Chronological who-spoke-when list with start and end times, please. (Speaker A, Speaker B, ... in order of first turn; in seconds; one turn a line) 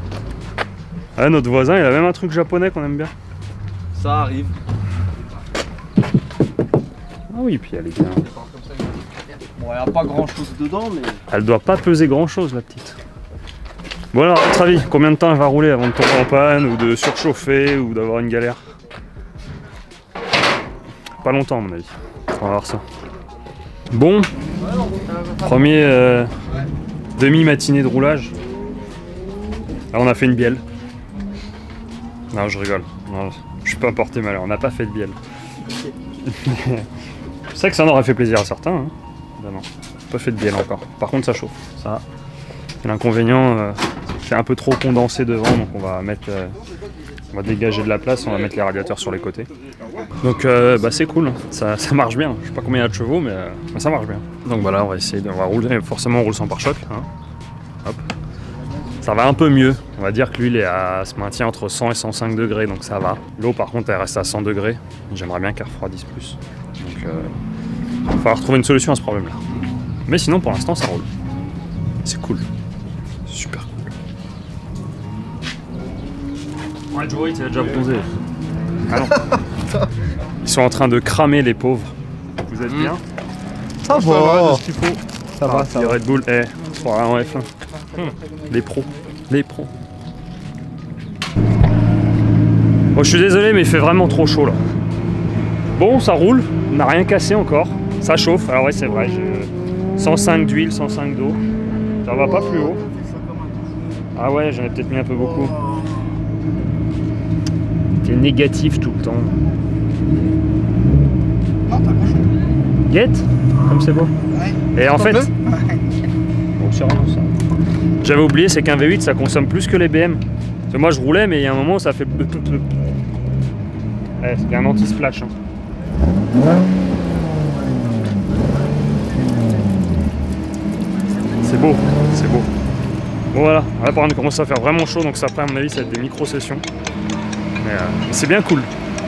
Speaker A: 1.2-3.1
Speaker B: 3.9-4.5
Speaker A: 7.3-8.2
Speaker B: 8.2-11.2
Speaker A: 11.3-13.0
Speaker A: 14.1-18.7
Speaker A: 21.2-22.9
Speaker A: 23.9-24.3
Speaker B: 24.6-25.5
Speaker A: 25.4-26.3
Speaker A: 27.1-28.3
Speaker A: 29.9-30.6
Speaker A: 32.3-35.2
Speaker A: 36.2-36.9
Speaker A: 37.5-42.0
Speaker A: 42.8-46.6
Speaker A: 47.3-49.5
Speaker C: 48.2-50.1
Speaker A: 50.2-57.1
Speaker A: 59.0-67.3
Speaker A: 68.1-69.4
Speaker A: 70.0-71.1
Speaker A: 72.0-72.5
Speaker A: 73.2-73.9
Speaker A: 76.9-78.1
Speaker A: 78.9-79.3
Speaker A: 80.4-83.0
Speaker B: 83.9-84.6
Speaker C: 83.9-85.0
Speaker B: 85.4-86.0
Speaker A: 85.4-89.7
Speaker A: 92.9-94.6
Speaker A: 95.7-101.4
Speaker A: 102.0-102.8
Speaker B: 102.8-104.0
Speaker A: 104.1-105.6
Speaker B: 105.5-105.9
Speaker A: 108.0-109.4
Speaker B: 111.7-112.3
Speaker A: 112.9-114.1
Speaker B: 114.3-115.8
Speaker A: 114.7-115.3
Speaker A: 116.6-117.3
Speaker A: 118.0-122.7
Speaker A: 124.2-125.3
Speaker A: 131.3-132.5
Speaker A: 133.3-136.6
Speaker A: 137.6-138.7